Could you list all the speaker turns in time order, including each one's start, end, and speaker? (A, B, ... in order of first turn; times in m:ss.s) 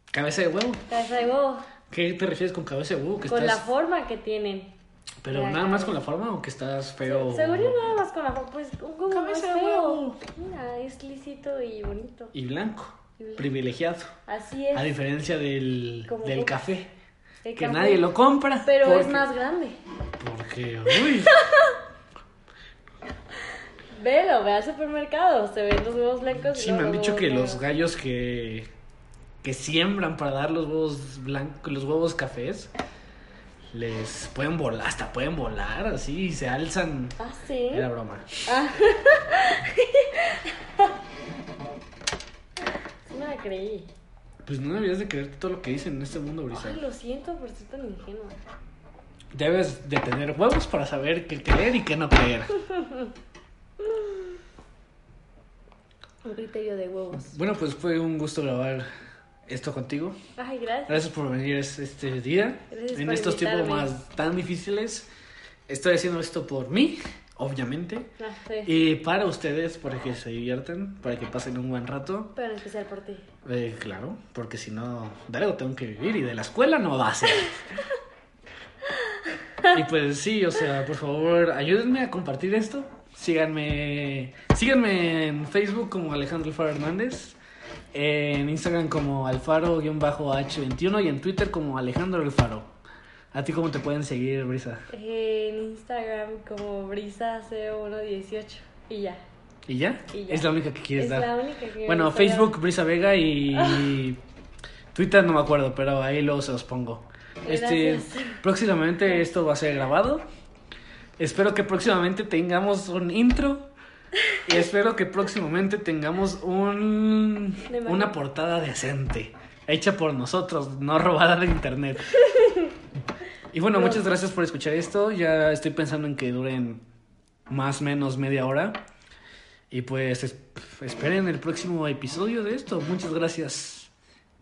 0:00.1-0:00.9 A
0:00.9-0:01.7 B
0:01.9-0:03.7 A
0:03.3-0:04.7 B
0:05.2-0:07.8 A
0:05.3-0:06.0 B
0:07.0-0:12.3 B
0:09.1-0:10.2 A
0:12.3-0:14.1 A
0:13.2-0:13.5 B
0:14.3-0:14.9 B
0:14.7-0:16.9 A
0:16.1-0:16.6 B
0:17.4-0:18.1 B
0:17.6-0:19.3 A
0:18.6-0:19.8 B
0:20.2-0:21.4 A
0:21.1-0:21.8 B
0:24.0-0:27.6 B
0:26.5-0:28.7 A
0:29.4-0:32.7 A
0:33.7-0:37.2 A
0:37.2-0:37.9 B
0:37.7-0:38.4 A
0:38.5-0:41.0 B
0:43.1-0:43.9 B
0:44.4-0:46.8 A
0:46.5-0:48.4 B
0:49.3-0:52.6 A
0:52.6-0:53.1 B
0:53.8-0:54.2 B
0:56.2-0:57.4 B
0:57.2-0:58.9 A
0:59.5-1:00.2 A
1:00.4-1:01.0 B
1:00.9-1:05.1 A
1:02.7-1:03.9 B
1:05.7-1:08.1 A
1:08.2-1:08.8 B
1:08.6-1:12.3 A
1:12.4-1:13.2 B
1:13.4-1:17.6 A
1:19.7-1:27.4 A
1:27.9-1:32.7 A
1:33.3-1:34.9 A
1:34.9-1:39.2 B
1:39.7-1:41.3 A
1:40.1-1:42.6 B
1:41.8-1:44.2 A
1:43.5-1:44.0 B
1:44.9-1:50.2 A
1:47.4-1:48.4 B
1:51.2-1:53.7 A
1:54.4-2:02.2 A
1:57.7-1:58.2 B
2:02.2-2:02.7 B
2:03.5-2:06.8 A
2:03.8-2:04.0 B
2:07.5-2:08.8 A
2:09.7-2:13.9 A